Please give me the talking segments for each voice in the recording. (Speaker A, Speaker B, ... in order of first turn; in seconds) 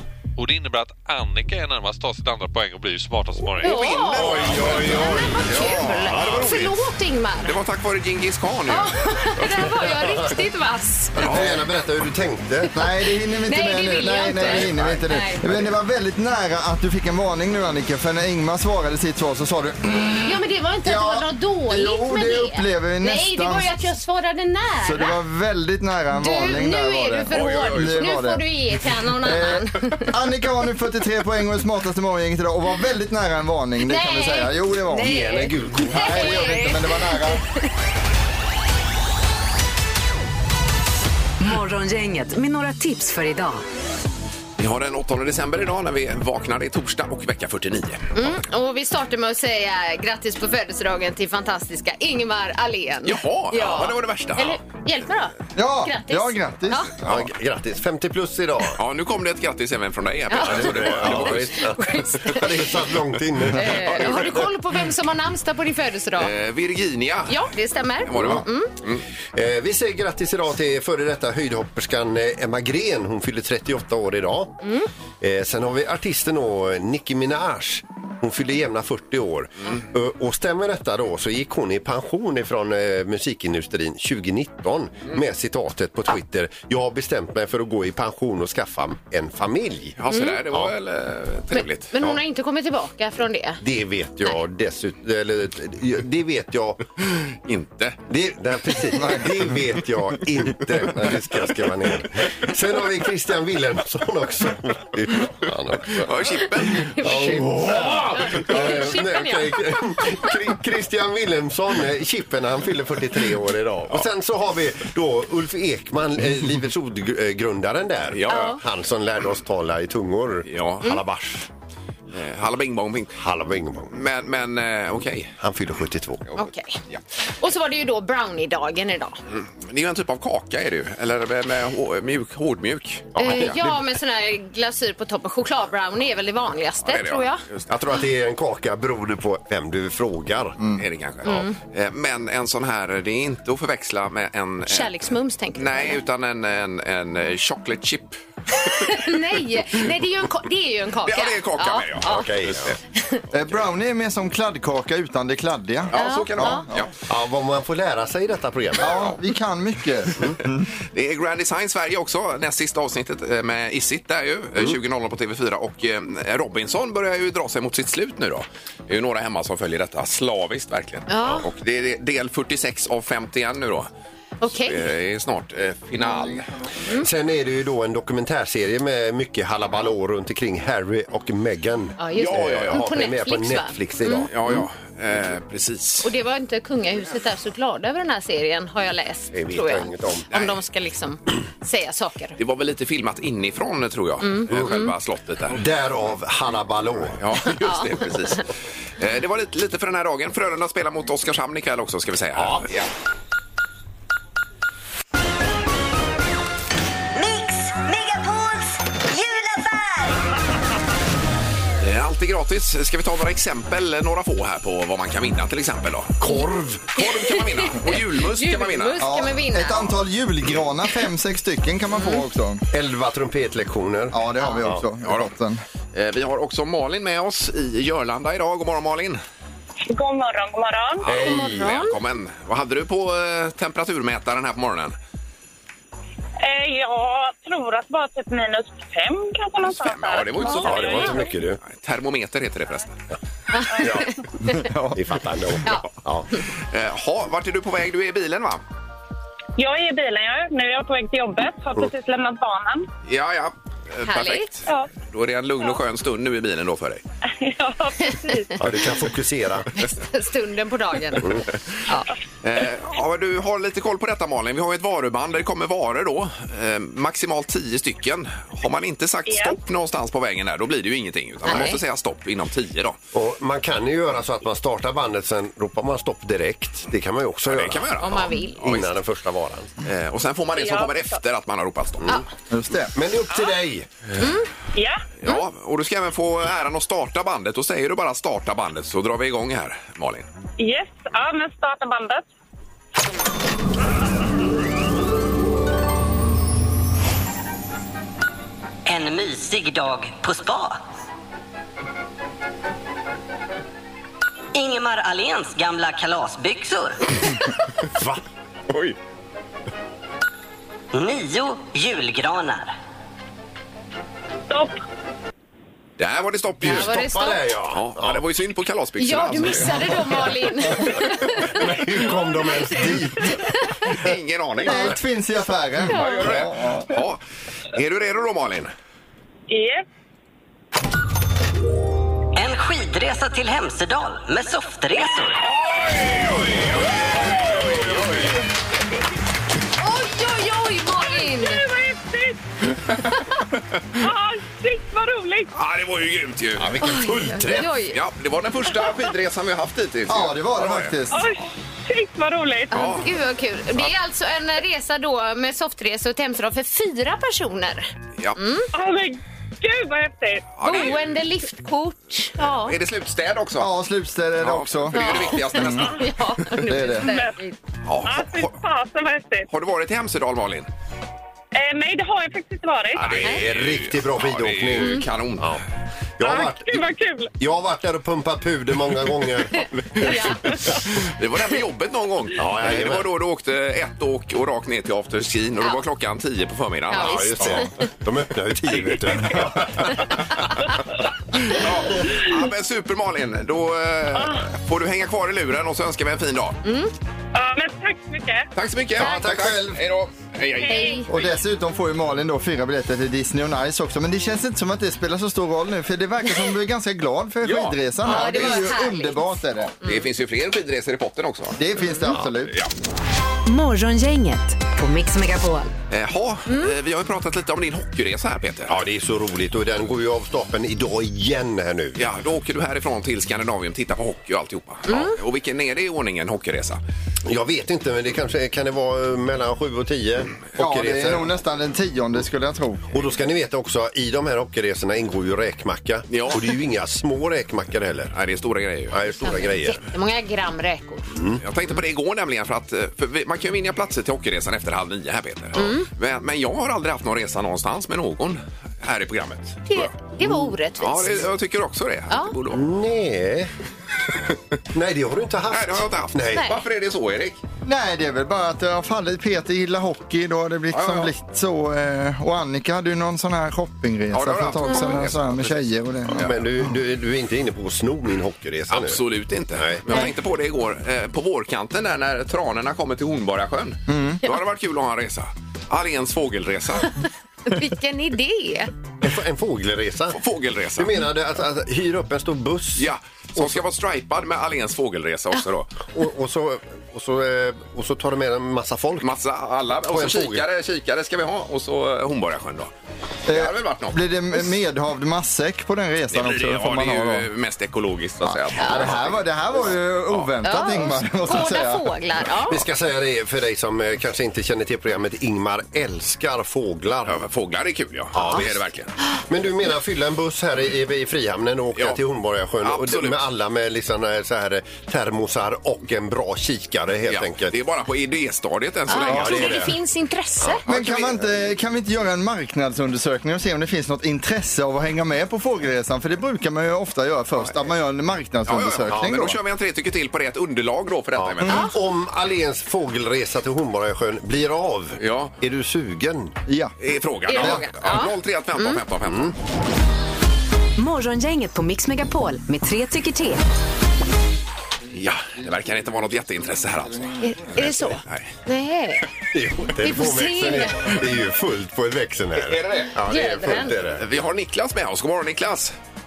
Speaker A: 0.4-3.9
Speaker B: 3.6-7.5, 8.7-11.3, 13.4-15.4, 20.2-25.1, 26.1-30.1, 33.8-37.6, 48.1-56.9, 60.3-62.5, 63.5-66.3, 67.3-68.7, 74.6-74.9, 90.1-90.4, 91.5-93.6, 106.7-110.3, 118.3-118.6, 126.3-126.8, 127.4-129.2, 133.2-137.4, 141.2-141.6, 144.7-146.0, 148.5-152.3, 152.9-153.2, 155.9-156.7, 171.1-171.5, 174.4-174.9, 182.0-184.3, 186.0-192.4, 194.2-194.9, 197.6-198.4, 216.9-219.9, 221.9-222.2, 231.2-232.0, 243.5-244.6, 254.0-254.5, 259.8-262.1, 271.4-271.8, 278.0-278.6, 284.2-284.5, 316.6-317.5, 319.0-321.6, 323.4-323.9, 325.9-326.3, 339.8-341.6, 346.8-348.0, 352.7-358.7, 360.6-362.8, 364.9-367.5, 374.8-375.1, 379.5-380.7, 386.9-387.7, 396.6-396.9, 400.7-401.1, 408.0-410.1, 411.8-412.1, 416.5-416.7, 424.9-425.1, 439.2-441.1, 445.5-445.9, 449.7-451.2, 452.1-452.3, 456.3-456.6, 477.5-478.7, 498.6-498.9, 500.4-502.6, 518.9-520.6, 531.5-531.7, 537.3-538.8, 547.2-549.0, 549.8-550.8, 553.1-553.7
Speaker C: 3.6-6.8, 7.4-9.4, 11.2-11.6, 27.3-28.1, 44.6-48.1, 53.0-54.6, 58.8-61.5, 63.9-64.4, 66.2-67.5, 68.0-69.0, 90.0-91.9, 97.2-98.0, 105.9-108.4, 118.1-118.5, 120.5-120.8, 122.1-123.2, 123.9-125.3, 126.3-127.0, 129.3-133.6, 136.8-137.7, 140.8-144.9, 145.5-148.2, 151.0-152.8, 155.9-156.9, 158.8-159.2, 160.9-173.9, 174.5-176.5, 182.1-182.9, 184.3-186.1, 190.3-190.6, 192.4-195.6, 197.2-202.9, 211.8-216.2, 216.9-219.1, 225.0-225.3, 225.9-229.2, 231.1-234.9, 239.7-243.0, 246.7-248.6, 253.1-257.0, 262.4-273.0, 277.5-278.9, 279.8-282.2, 285.2-290.3, 308.7-308.9, 316.0-317.0, 317.7-320.2, 323.9-324.9, 325.9-327.2, 327.7-328.7, 337.4-338.4, 345.5-346.8, 347.9-350.9, 352.7-353.1, 360.6-361.1, 362.6-363.7, 364.4-366.1, 367.9-368.5, 369.5-370.7, 373.0-375.6, 381.0-387.6, 391.4-396.6, 398.5-401.2, 407.4-408.7, 409.8-411.6, 415.9-418.8, 421.9-426.8, 436.1-436.4, 438.1-439.1, 441.4-449.9, 450.8-452.7, 455.5-457.4, 460.7-461.1, 464.1-466.4, 468.7-476.9, 480.1-481.0, 482.8-485.7, 489.0-492.7, 493.3-494.0, 496.1-499.2, 507.1-508.9, 512.6-513.2, 517.1-519.7, 520.6-521.2, 528.5-531.7, 535.0-535.3, 536.8-539.3, 544.9-548.3, 552.4-552.9, 553.7-555.7
Speaker D: 4.1-6.5, 9.8-10.1, 11.2-12.7, 14.3-15.0, 34.9-36.3, 57.0-58.8, 60.4-64.3, 69.3-74.5, 75.2-90.0, 90.5-90.7, 93.6-96.8, 98.1-106.4, 107.0-121.5, 123.2-124.0, 125.4-126.2, 133.1-133.6, 137.7-140.6, 152.0-152.8, 157.1-159.1, 177.0-184.6, 189.3-190.3, 194.5-194.8, 195.5-197.2, 202.3-202.7, 216.2-216.8, 222.7-224.8, 231.1-231.7, 240.5-241.6, 243.8-244.1, 244.9-246.3, 258.6-259.7, 273.1-279.7, 282.9-283.9, 316.6-318.2, 321.4-323.3, 346.6-347.7, 372.9-375.6, 376.2-376.9, 377.4-380.6, 382.4-383.1, 386.9-390.4, 399.0-399.7, 418.7-422.0, 427.2-431.2, 432.9-438.1, 438.9-439.8, 441.1-441.4, 452.5-453.5, 454.7-456.5, 466.1-469.0, 469.6-470.1, 479.0-480.2, 480.8-483.6, 485.9-489.1, 489.8-490.4, 502.5-507.2, 508.1-508.6, 509.3-517.5, 519.0-519.8, 528.9-529.1, 531.1-536.4, 539.0-539.3, 549.3-554.0
Speaker E: 12.7-23.8, 24.8-28.4, 29.2-35.2, 35.8-37.4, 55.5-57.3, 98.9-99.4, 153.3-156.9, 158.8-160.7, 219.0-222.6, 224.1-225.6, 244.5-245.0, 282.5-282.9, 322.8-323.2, 324.6-326.9, 350.1-351.3, 363.6-365.9, 366.6-367.1, 401.1-409.7, 411.6-412.6, 430.6-432.9, 457.6-466.3, 473.9-474.2, 493.3-497.3, 498.2-501.9, 520.6-529.4, 536.5-536.7
Speaker F: 41.4-43.6, 413.4-415.7, 540.8-543.4
Speaker G: 207.1-210.2, 298.9-300.8, 304.5-307.1, 310.9-312.7, 332.3-335.4
Speaker H: 229.9-231.1, 236.4-241.3, 249.6-252.9, 257.3-258.7, 269.2-269.6, 280.5-281.2, 284.7-285.0, 290.6-292.2, 314.5-314.8, 329.5-329.8, 341.0-342.4, 344.0-345.5, 351.1-352.8, 358.7-360.4, 367.0-367.4, 368.0-369.5, 371.5-373.2, 376.2-377.3, 394.1-394.4, 397.3-398.5, 400.5-401.0